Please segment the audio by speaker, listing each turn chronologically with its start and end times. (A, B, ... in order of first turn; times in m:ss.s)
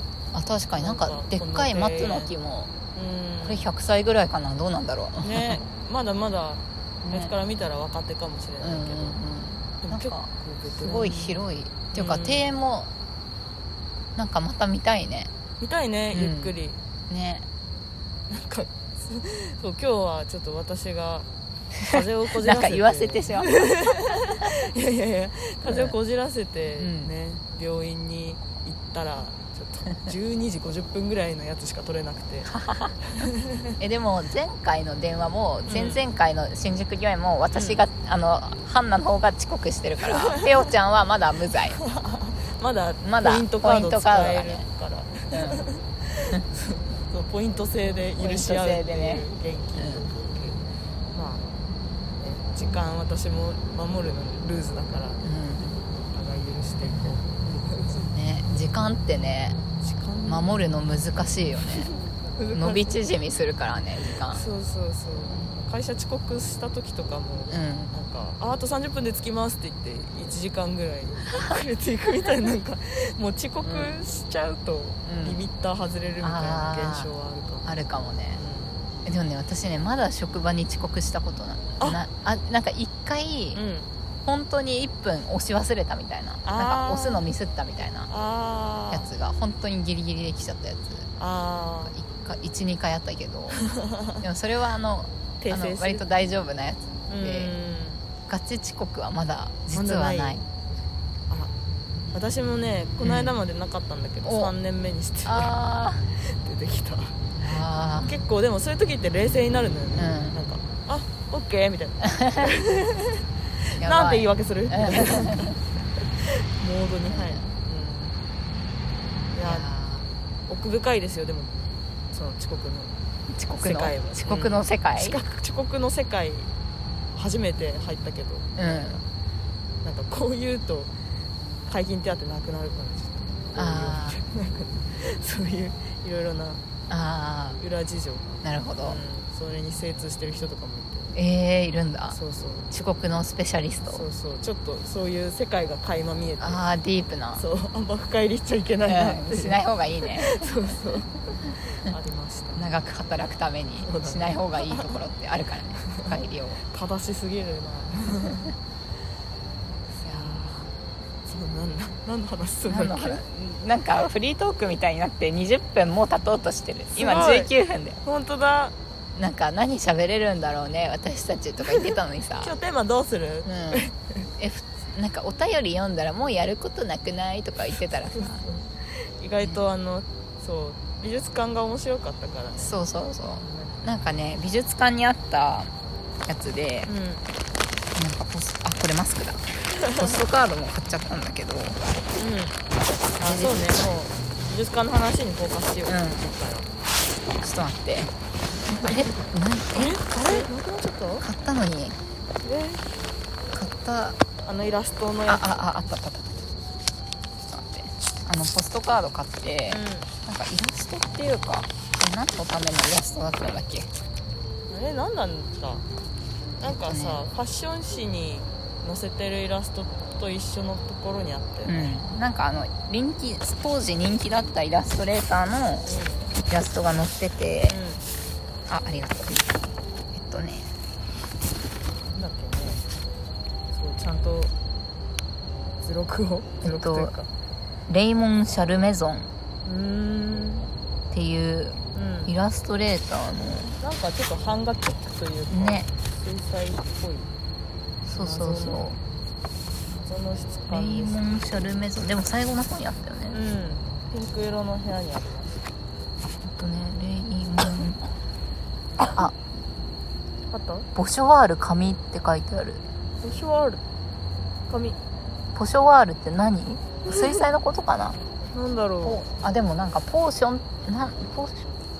0:00.3-0:02.7 A
0:00.8-0:02.3 B
0:02.9-0:03.7 B
0:03.4-0:05.6 A
0:05.2-0:09.2 B
0:07.0-0:07.3 A
0:08.6-0:12.9 A
0:09.8-0:11.4 B
0:11.9-0:12.5 B
0:14.2-0:15.3 A
0:15.6-0:16.8 B
0:16.1-0:16.5 A
0:17.1-0:17.5 A
0:18.3-0:21.3 B
0:21.8-0:32.5 B
0:21.9-0:24.2 A
0:25.7-0:26.0 A
0:26.8-0:27.1 A
0:32.5-0:33.3 A
0:33.0-0:33.7 B
0:33.8-0:41.8 A
0:35.7-0:36.0 B
0:37.5-0:37.8 B
0:40.1-0:40.5 B
0:41.8-0:51.5 B
0:43.0-0:44.7 A
0:45.3-0:45.7 A
0:48.2-0:49.2 A
0:49.8-0:50.0 A
0:52.2-0:55.2 B
0:55.2-0:55.8 A
0:55.9-0:58.1 B
0:56.9-0:57.2 A
0:58.1-0:59.6 A
0:59.8-1:00.6 B
1:00.3-1:01.9 A
1:01.7-1:03.0 B
1:02.5-1:04.4 A
1:04.3-1:17.7 B
1:07.5-1:07.9 A
1:13.6-1:14.0 A
1:15.0-1:15.4 A
1:16.2-1:17.1 A
1:17.6-1:18.4 A
1:18.3-1:18.9 B
1:19.0-1:23.6 A
1:23.5-1:23.9 B
1:24.2-1:28.1 A
1:26.4-1:27.3 B
1:28.1-1:29.1 B
1:28.9-1:31.1 A
1:31.2-1:31.9 B
1:31.9-1:33.6 A
1:33.6-1:34.2 B
1:34.2-1:37.5 A
1:35.4-1:36.0 B
1:37.1-1:38.0 B
1:38.3-1:40.4 A
1:39.7-1:40.5 B
1:42.1-1:45.6 B
1:43.0-1:43.3 A
1:44.2-1:44.5 A
1:45.3-1:46.0 A
1:46.2-1:47.2 B
1:47.4-1:48.1 A
1:48.0-1:53.2 B
1:50.0-1:50.4 A
1:52.2-1:52.5 A
1:53.8-1:55.6 B
1:53.8-1:55.5 A
1:56.2-1:58.2 B
1:57.1-1:57.4 A
1:59.3-1:59.7 B
1:59.4-2:00.1 A
2:00.5-2:01.5 B
2:02.1-2:02.9 B
2:03.3-2:05.2 A
2:03.6-2:06.5 B
2:07.1-2:09.1 B
2:08.6-2:09.0 A
2:09.8-2:10.9 B
2:11.7-2:16.6 B
2:13.6-2:14.2 A
2:16.9-2:17.6 A
2:17.6-2:18.3 B
2:18.4-2:19.0 A
2:18.8-2:21.1 B
2:21.1-2:22.2 A
2:22.1-2:22.7 B
2:22.7-2:24.0 A
2:23.9-2:26.6 B
2:26.4-2:27.4 A
2:27.4-2:32.7 B
2:28.9-2:30.6 A
2:32.6-2:36.6 A
2:33.8-2:35.0 B
2:35.8-2:36.1 B
2:36.7-2:38.5 B
2:40.0-2:40.7 B
2:40.0-2:40.6 A
2:41.2-2:43.2 B
2:42.7-2:48.0 A
2:46.9-2:47.5 B
2:48.0-2:48.7 B
2:49.2-2:52.6 A
2:52.4-2:54.3 B
2:53.4-2:53.8 A
2:54.4-2:58.5 A
2:58.1-3:03.8 B
3:02.6-3:05.7 A
3:06.3-3:06.9 A
3:06.9-3:07.2 B
3:08.0-3:09.4 A
3:09.7-3:10.2 B
3:10.0-3:11.8 A
3:12.2-3:12.6 B
3:13.2-3:13.9 A
3:13.2-3:16.7 B
3:15.9-3:16.2 A
3:17.4-3:18.1 A
3:18.7-3:20.5 A
3:18.7-3:19.2 B
3:19.8-3:21.3 B
3:21.2-3:22.0 A
3:22.4-3:22.8 B
3:23.5-3:24.2 A
3:24.4-3:25.5 B
3:25.3-3:26.4 A
3:27.4-3:33.9 A
3:29.7-3:30.1 B
3:34.7-3:35.8 B
3:36.6-3:41.9 B
3:36.6-3:37.2 A
3:41.7-3:45.9 A
3:45.9-3:46.3 B
3:46.5-3:47.8 A
3:47.7-3:48.0 B
3:48.7-3:49.5 A
3:50.1-3:50.7 A
3:52.1-3:52.8 B
3:53.7-3:54.5 B
3:55.8-3:57.3 B
3:56.6-3:57.1 A
3:57.9-3:59.3 A
3:59.6-4:00.7 B
4:01.1-4:03.8 A
4:01.9-4:02.4 B
4:03.8-4:07.3 B
4:05.5-4:05.9 A
4:08.1-4:09.0 A
4:08.2-4:09.0 B
4:10.0-4:11.2 B
4:10.7-4:13.4 A
4:13.3-4:15.7 B
4:16.4-4:18.1 A
4:19.0-4:19.4 A
4:20.5-4:20.9 B
4:21.0-4:22.8 A
4:23.2-4:23.8 B
4:24.7-4:25.0 B
4:25.5-4:28.2 A
4:27.1-4:27.4 B
4:28.5-4:29.2 B
4:29.0-4:31.7 A